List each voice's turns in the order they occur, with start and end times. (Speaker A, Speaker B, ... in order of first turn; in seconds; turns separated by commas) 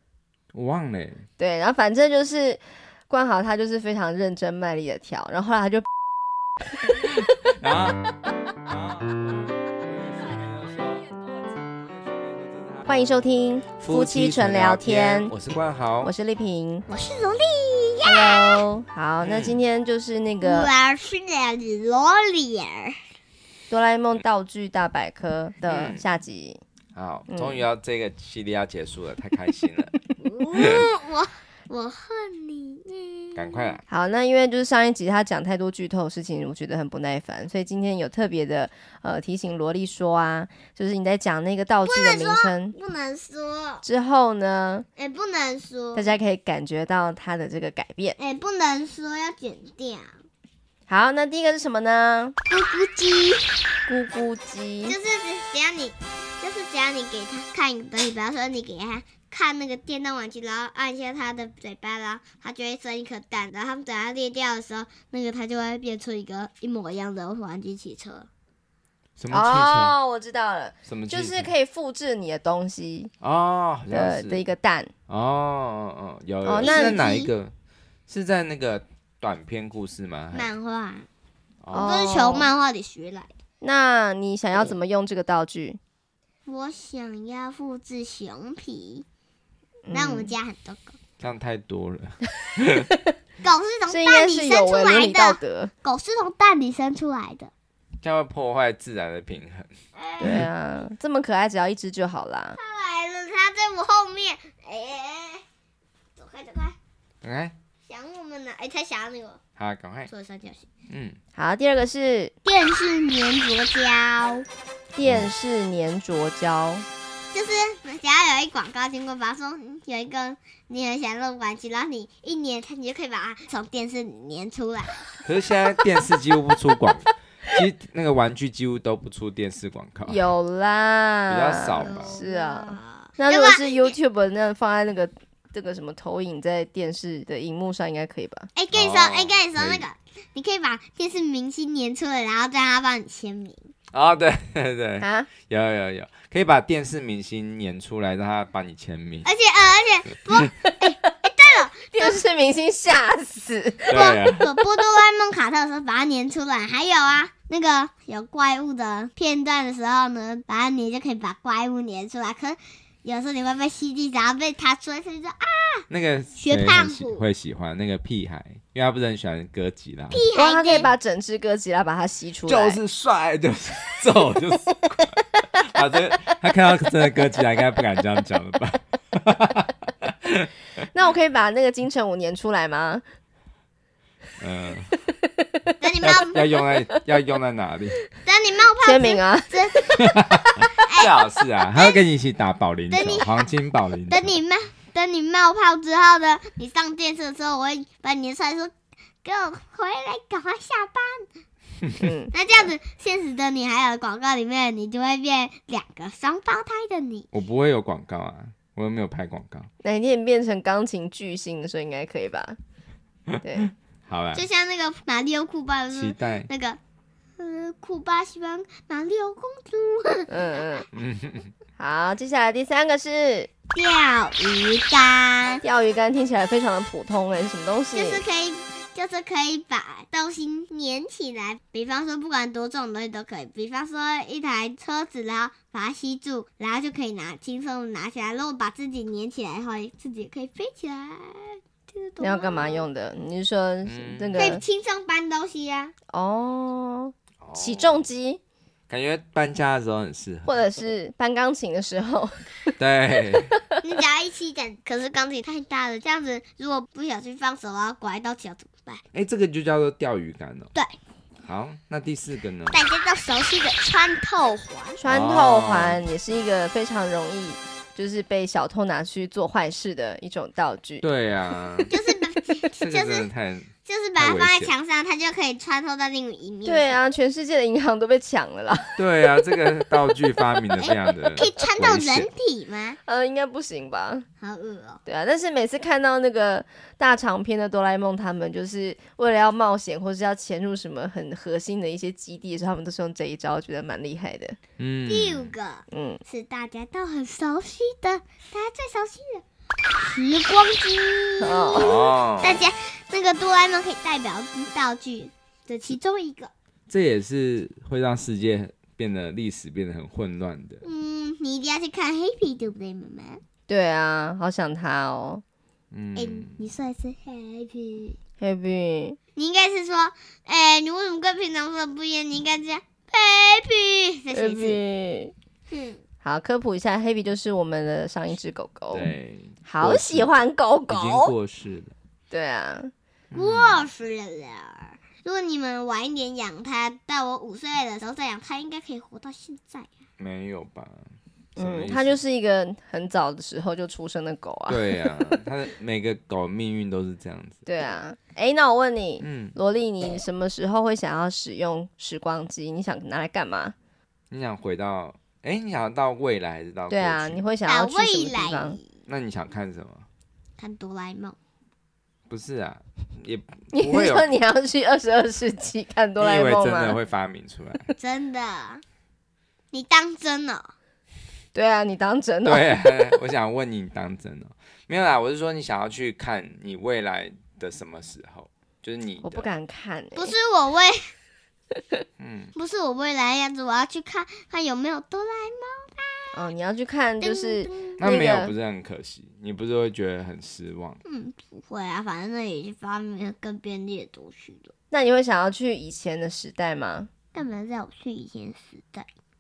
Speaker A: 0.5-1.2, Speaker B: 1.4-5.9, Speaker A: 7.5-8.0, Speaker A: 8.6-12.9, Speaker B: 12.9-15.3, Speaker A: 13.8-16.1, Speaker B: 16.0-16.9, Speaker C: 16.9-18.6, Speaker B: 18.0-20.7, Speaker A: 19.2-19.6, Speaker C: 20.4-23.0, Speaker B: 23.7-26.6, Speaker A: 25.7-26.0, Speaker A: 26.9-29.9, Speaker B: 27.3-27.6, Speaker C: 30.2-33.8, Speaker A: 30.5-30.9, Speaker A: 33.4-33.8, Speaker B: 33.9-42.8, Speaker C: 41.9-43.8, Speaker B: 43.8-44.9, Speaker C: 45.0-46.1, Speaker B: 46.0-48.2, Speaker C: 48.2-50.2, Speaker B: 50.9-52.4, Speaker C: 52.5-53.6, Speaker B: 53.9-55.0, Speaker C: 54.9-68.3, Speaker A: 69.2-70.0, Speaker B: 69.3-73.1, Speaker A: 70.8-71.5, Speaker A: 73.2-74.5, Speaker B: 73.9-74.9, Speaker A: 75.1-77.5, Speaker B: 76.4-77.0, Speaker C: 76.6-77.3, Speaker A: 78.1-80.5, Speaker C: 80.3-81.1, Speaker A: 81.6-82.0, Speaker B: 81.7-82.5, Speaker C: 81.8-83.3, Speaker B: 83.6-85.8, Speaker C: 86.5-89.0, Speaker B: 89.9-90.3, Speaker C: 89.9-91.0, Speaker A: 91.2-92.9, Speaker C: 93.4-97.5, Speaker B: 93.9-95.7, Speaker A: 98.0-99.7, Speaker C: 100.0-100.4, Speaker B: 100.2-102.6, Speaker A: 100.2-100.5, Speaker C: 102.6-105.5, Speaker C: 106.2-106.8, Speaker A: 107.2-107.5, Speaker C: 107.9-109.4, Speaker A: 109.6-110.1, Speaker C: 110.1-110.7, Speaker A: 110.9-111.2, Speaker B: 111.3-112.3, Speaker C: 112.5-114.5, Speaker B: 115.0-116.9, Speaker A: 115.0-115.3, Speaker C: 117.3-125.0, Speaker A: 125.2-130.2, Speaker B: 130.1-138.5, Speaker A: 131.3-132.2, Speaker C: 131.8-133.9, Speaker C: 138.6-143.7, Speaker A: 138.7-139.8, Speaker A: 143.9-149.3, Speaker B: 145.0-145.3, Speaker C: 149.2-152.2, Speaker B: 150.6-151.1, Speaker B: 151.9-154.1, Speaker A: 153.9-154.5, Speaker C: 153.9-165.9, Speaker A: 165.9-170.2, Speaker C: 166.4-167.2, Speaker C: 170.1-170.9, Speaker B: 170.3-172.8, Speaker A: 172.5-180.5, Speaker B: 180.9-183.0, Speaker A: 184.4-184.9, Speaker C: 185.8-186.4, Speaker A: 186.0-188.0, Speaker C: 188.2-189.9, Speaker B: 188.8-190.7, Speaker A: 190.0-194.4, Speaker C: 190.8-192.0, Speaker C: 192.9-193.5, Speaker C: 194.1-198.7, Speaker C: 199.2-201.3, Speaker B: 202.0-202.3, Speaker C: 202.3-207.3, Speaker A: 207.3-209.7, Speaker B: 209.8-212.6, Speaker B: 213.4-213.7, Speaker A: 214.1-214.5, Speaker C: 214.3-216.8, Speaker A: 215.9-216.5, Speaker C: 217.4-220.8, Speaker B: 220.3-220.9, Speaker A: 220.9-221.5, Speaker B: 221.8-223.5, Speaker C: 223.7-225.6, Speaker B: 225.6-228.2, Speaker C: 227.9-242.8, Speaker B: 242.2-244.6, Speaker A: 243.8-244.6, Speaker C: 244.4-245.9, Speaker B: 246.1-248.4, Speaker A: 247.4-248.1, Speaker A: 248.9-250.6, Speaker B: 250.5-252.7, Speaker A: 252.8-253.5, Speaker C: 253.8-259.0, Speaker A: 259.1-260.7, Speaker A: 261.4-262.8, Speaker C: 262.7-265.0, Speaker B: 265.0-271.1, Speaker A: 265.1-266.0, Speaker A: 271.0-271.9, Speaker C: 271.9-273.3, Speaker A: 272.8-274.7, Speaker C: 273.9-277.0, Speaker B: 276.6-279.0, Speaker A: 279.0-282.3, Speaker C: 280.8-283.0, Speaker B: 283.1-284.2, Speaker C: 284.4-285.0, Speaker B: 285.1-294.6, Speaker A: 294.8-295.5, Speaker C: 295.1-299.4, Speaker B: 295.9-296.2, Speaker C: 300.0-306.5, Speaker B: 301.4-301.9, Speaker A: 301.8-302.7, Speaker A: 306.9-310.8, Speaker C: 310.8-313.4, Speaker B: 313.7-315.4, Speaker A: 315.9-316.6, Speaker C: 316.2-318.2, Speaker B: 318.4-319.2, Speaker C: 319.4-324.8, Speaker B: 324.3-325.3, Speaker C: 325.7-326.0, Speaker B: 326.2-329.1, Speaker A: 328.9-330.4, Speaker B: 329.7-331.3, Speaker A: 330.9-331.9, Speaker B: 332.3-332.9, Speaker A: 333.3-333.9, Speaker C: 333.3-339.9, Speaker A: 340.2-342.2, Speaker B: 341.6-345.4, Speaker A: 344.7-347.6, Speaker B: 347.7-353.8, Speaker A: 349.2-349.6, Speaker A: 354.3-357.4, Speaker B: 356.9-358.8, Speaker C: 357.7-358.9, Speaker A: 359.1-360.1, Speaker C: 360.6-361.4, Speaker A: 362.3-364.3, Speaker B: 363.7-367.0, Speaker A: 366.2-367.9, Speaker C: 368.0-368.8, Speaker C: 369.7-370.7, Speaker B: 371.5-373.2, Speaker A: 372.4-379.5, Speaker B: 379.2-380.4, Speaker C: 380.2-381.1, Speaker A: 382.2-382.5, Speaker C: 382.6-386.4, Speaker B: 386.3-388.5, Speaker C: 387.2-388.0, Speaker A: 388.0-391.0, Speaker C: 391.1-394.7, Speaker B: 394.9-397.1, Speaker C: 397.3-399.1